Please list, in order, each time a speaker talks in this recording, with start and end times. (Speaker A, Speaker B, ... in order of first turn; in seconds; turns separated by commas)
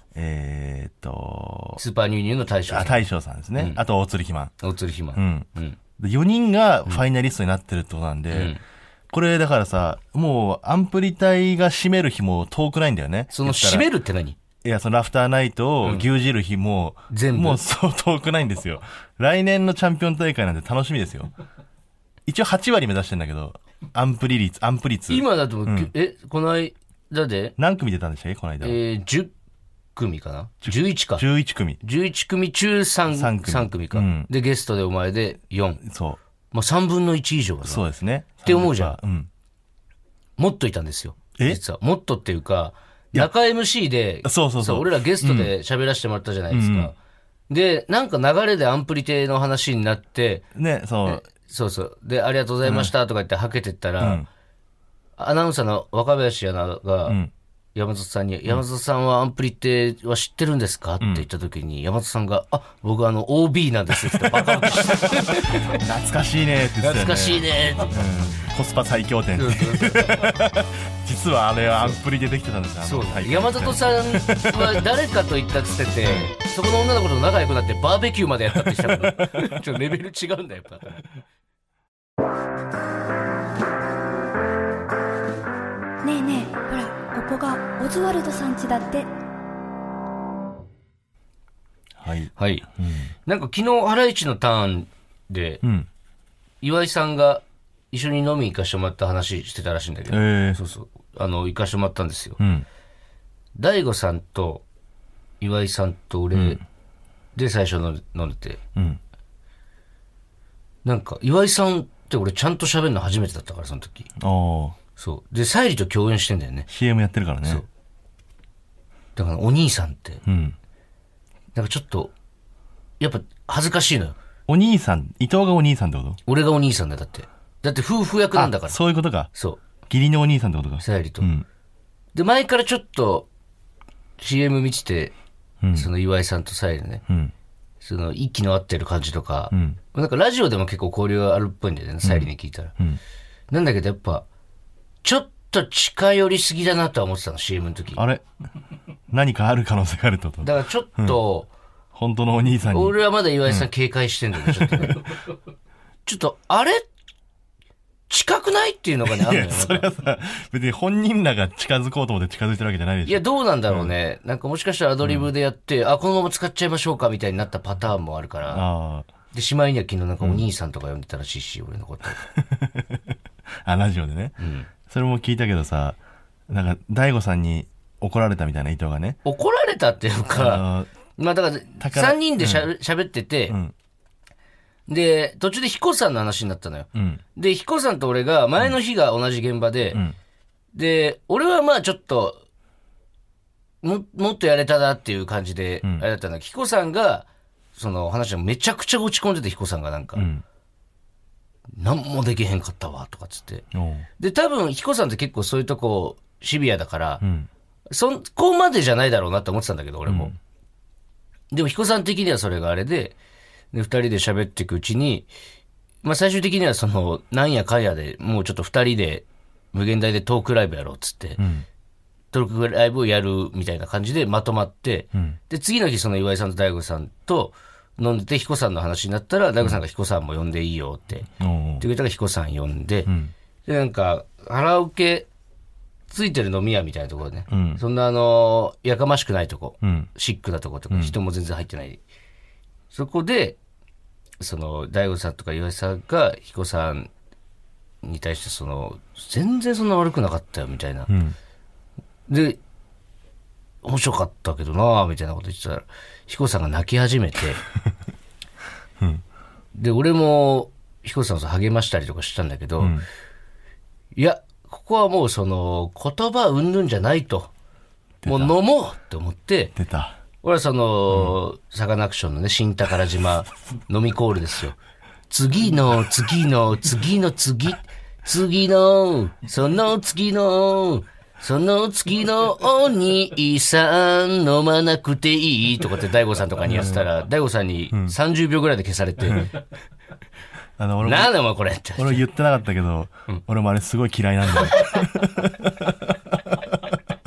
Speaker A: 0.1-1.8, Speaker B: 1.8-3.8, Speaker A: 2.7-4.5, Speaker B: 4.6-5.8, Speaker A: 5.1-8.6, Speaker B: 8.3-8.6, Speaker A: 9.1-13.9, Speaker B: 13.3-14.4, Speaker A: 14.6-21.3, Speaker B: 17.1-17.6, Speaker A: 22.2-25.9, Speaker B: 25.1-27.5, Speaker A: 27.6-28.8, Speaker B: 28.6-29.3, Speaker B: 29.9-31.2, Speaker A: 30.6-31.8, Speaker B: 31.8-35.8, Speaker A: 33.1-34.3, Speaker A: 35.8-36.2, Speaker B: 36.5-37.8, Speaker A: 37.6-39.3, Speaker B: 38.4-39.0, Speaker B: 40.4-46.9, Speaker A: 44.2-45.5, Speaker A: 46.5-46.9, Speaker B: 47.5-50.5, Speaker A: 50.5-51.2, Speaker B: 51.0-54.2, Speaker A: 52.6-52.9, Speaker A: 54.0-54.2, Speaker B: 55.2-57.2, Speaker A: 57.0-57.3, Speaker B: 57.7-65.8, Speaker A: 61.0-61.2, Speaker A: 64.0-74.8, Speaker B: 66.8-68.1, Speaker B: 69.3-70.4, Speaker B: 72.8-81.1, Speaker A: 76.0-76.3, Speaker A: 78.6-79.5, Speaker C: 86.0-89.1, Speaker A: 92.0-93.1, Speaker B: 92.4-92.7, Speaker B: 93.2-95.6, Speaker A: 95.6-95.9, Speaker B: 96.6-102.4, Speaker A: 100.1-100.6, Speaker A: 102.4-102.6, Speaker B: 103.5-104.6, Speaker B: 105.4-106.6, Speaker A: 106.3-106.6, Speaker B: 107.3-108.6, Speaker A: 108.7-109.0, Speaker B: 110.8-114.1, Speaker A: 114.2-114.8, Speaker B: 115.0-116.7, Speaker A: 116.7-117.6, Speaker B: 119.2-120.2, Speaker A: 120.2-120.5, Speaker B: 121.5-122.1, Speaker B: 123.0-124.2, Speaker A: 124.5-126.2, Speaker B: 126.2-129.6, Speaker A: 128.3-129.3, Speaker A: 129.9-131.4, Speaker B: 130.8-131.3, Speaker B: 132.1-133.3, Speaker B: 134.2-135.1, Speaker A: 135.6-135.9, Speaker B: 135.7-137.0, Speaker A: 137.1-137.3, Speaker B: 137.8-142.7, Speaker A: 139.5-139.8, Speaker A: 142.0-143.0, Speaker B: 143.5-144.2, Speaker B: 145.0-148.0, Speaker A: 147.9-148.2, Speaker A: 149.1-151.2, Speaker B: 150.4-151.5, Speaker A: 151.9-153.7, Speaker B: 152.7-155.1, Speaker A: 154.3-155.0, Speaker B: 156.1-156.8, Speaker B: 158.1-159.9, Speaker A: 159.1-163.9, Speaker B: 163.0-168.6, Speaker A: 168.5-169.1, Speaker B: 169.3-172.2, Speaker A: 172.3-173.1, Speaker A: 173.6-179.2, Speaker B: 174.4-174.7, Speaker B: 179.2-183.6, Speaker A: 180.3-180.9, Speaker A: 181.8-182.7, Speaker A: 183.5-183.7, Speaker B: 184.9-190.0, Speaker A: 186.9-187.2, Speaker B: 190.7-192.4, Speaker B: 193.8-200.3, Speaker A: 200.2-200.4, Speaker B: 201.8-203.6, Speaker A: 203.7-204.1, Speaker B: 204.2-207.2, Speaker A: 207.2-207.5, Speaker B: 207.9-210.3, Speaker A: 210.1-210.3, Speaker B: 211.5-213.1, Speaker B: 213.7-215.3, Speaker B: 216.0-221.4, Speaker A: 221.4-221.6, Speaker B: 222.3-233.1, Speaker A: 231.4-231.8, Speaker A: 233.1-233.3, Speaker B: 233.7-235.3, Speaker B: 236.1-242.0, Speaker A: 237.5-237.8, Speaker A: 239.8-240.1, Speaker B: 242.9-243.6, Speaker B: 244.4-247.1, Speaker B: 248.0-251.1, Speaker A: 251.1-251.3, Speaker B: 252.3-252.6, Speaker B: 253.8-257.6, Speaker B: 259.7-263.0, Speaker B: 264.1-267.5, Speaker A: 268.2-268.5, Speaker B: 268.2-269.8, Speaker A: 269.8-270.2, Speaker B: 270.4-274.8, Speaker B: 275.3-289.5, Speaker A: 286.6-287.0, Speaker A: 289.2-289.5, Speaker A: 290.8-291.3, Speaker B: 291.0-292.2, Speaker A: 292.0-296.8